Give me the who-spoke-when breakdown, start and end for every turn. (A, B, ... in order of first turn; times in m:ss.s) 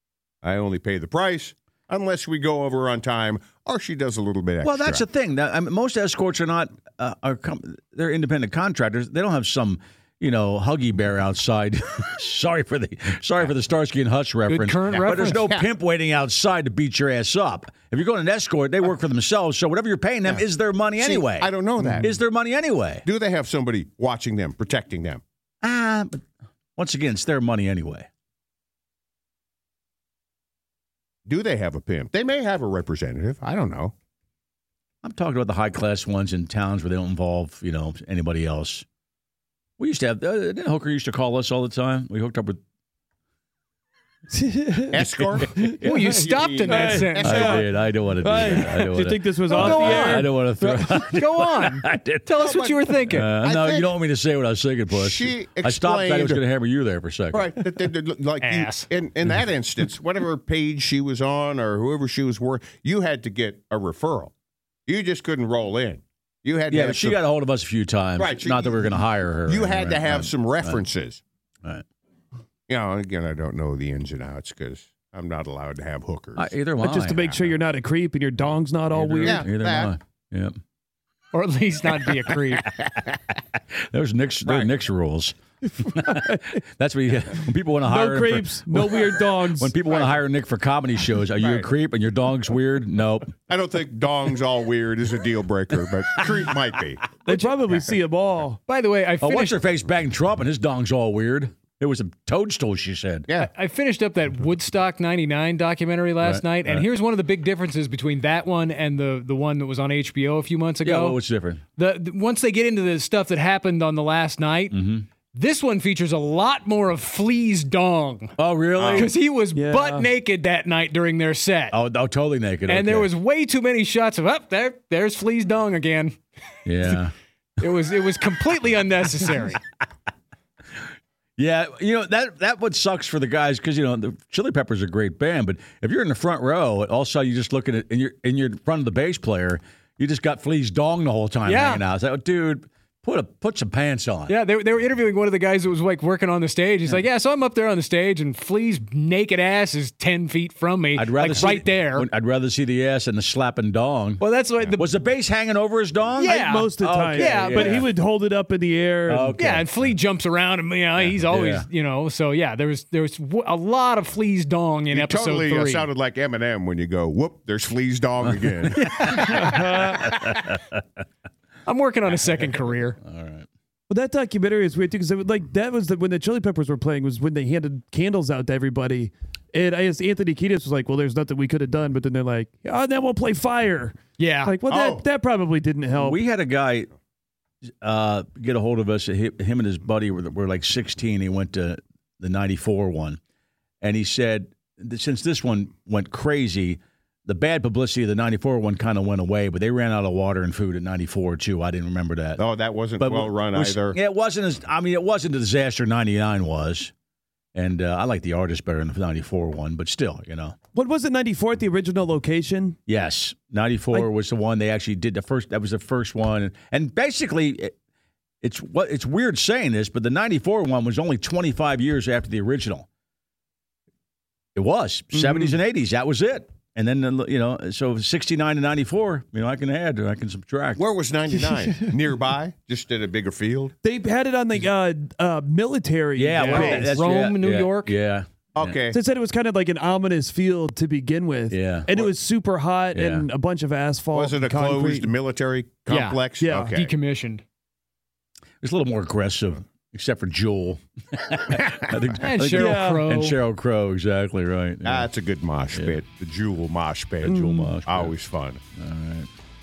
0:00.4-0:05.0 A
0:04.6-0:23.0 B
0:14.5-0:15.4 C
0:14.9-0:15.7 A
0:21.0-0:22.1 A
0:23.0-0:25.2 A
0:25.6-0:26.2 B
0:26.8-0:28.1 B
0:31.3-0:33.9 A
0:35.0-0:38.8 B
0:39.8-0:42.6 B
0:44.3-0:45.8 D
0:44.9-0:47.6 A
0:45.1-0:46.2 B
0:45.8-0:47.4 C
0:46.7-0:47.7 D
0:47.2-0:52.4 B
0:48.2-0:51.1 D
0:49.5-0:53.3 C
0:52.4-0:54.0 A
0:53.0-0:57.5 B
0:54.9-0:56.4 A
0:57.3-1:04.3 A
0:58.4-0:58.9 C
1:04.9-1:07.2 A
1:06.7-1:10.8 B
1:08.2-1:11.2 A
1:12.7-1:16.5 A
1:16.4-1:17.4 B
1:16.8-1:19.5 D
1:17.2-1:17.5 A
1:18.9-1:20.5 B
1:19.2-1:20.0 A
1:21.3-1:22.7 C
1:23.9-1:33.3 B
1:24.5-1:24.7 A
1:27.9-1:29.8 D
1:29.8-1:30.2 A
1:31.4-1:31.7 A
1:33.5-1:37.1 A
1:37.2-1:38.6 D
1:38.7-1:39.6 C
1:39.2-1:43.3 B
1:43.4-1:51.2 C
1:46.2-1:46.9 B
1:50.8-1:51.6 B
1:51.8-1:54.8 C
1:54.7-1:55.1 B
1:55.3-1:58.3 C
1:58.4-1:59.1 B
1:58.9-2:01.8 C
1:59.5-2:00.1 D
2:01.7-2:03.1 B
2:02.7-2:06.2 C
2:06.7-2:07.1 B
2:07.6-2:09.6 C
2:11.4-2:24.4 B
2:21.4-2:21.8 C
2:24.3-2:32.1 C
2:31.0-2:38.0 B
2:34.2-2:34.9 C
2:36.2-2:39.4 D
2:36.2-2:37.9 C
2:39.1-2:39.7 B
2:39.4-2:45.9 C
2:41.0-2:41.7 B
2:44.9-2:49.6 A
2:48.2-2:50.8 B
2:49.2-2:50.0 D
2:51.7-2:53.0 C
2:53.0-2:53.5 B
2:53.9-3:06.2 D
3:04.2-3:04.5 C
3:04.7-3:05.0 A
3:05.9-3:06.9 B
3:07.8-3:13.2 B
3:13.8-3:22.4 B
3:22.4-3:24.0 A
3:23.0-3:26.9 B
3:27.6-3:30.6 B
3:30.7-3:32.8 D
3:32.9-3:37.7 B
3:38.4-3:42.9 B
3:44.6-3:50.9 B
3:50.8-3:53.7 A
3:53.8-3:57.0 D
3:56.2-3:58.8 B
3:56.4-3:58.0 C
3:58.6-3:59.0 A
3:58.9-4:05.1 D
4:01.5-4:02.0 B
4:02.9-4:03.3 B
4:04.1-4:07.0 A
4:05.9-4:07.4 C
4:06.4-4:06.7 D
4:08.6-4:15.1 B
4:12.1-4:13.4 C
4:12.4-4:13.0 D
4:14.8-4:18.6 A
4:15.7-4:16.0 B
4:17.2-4:18.2 B
4:17.3-4:17.7 D
4:18.8-4:19.3 B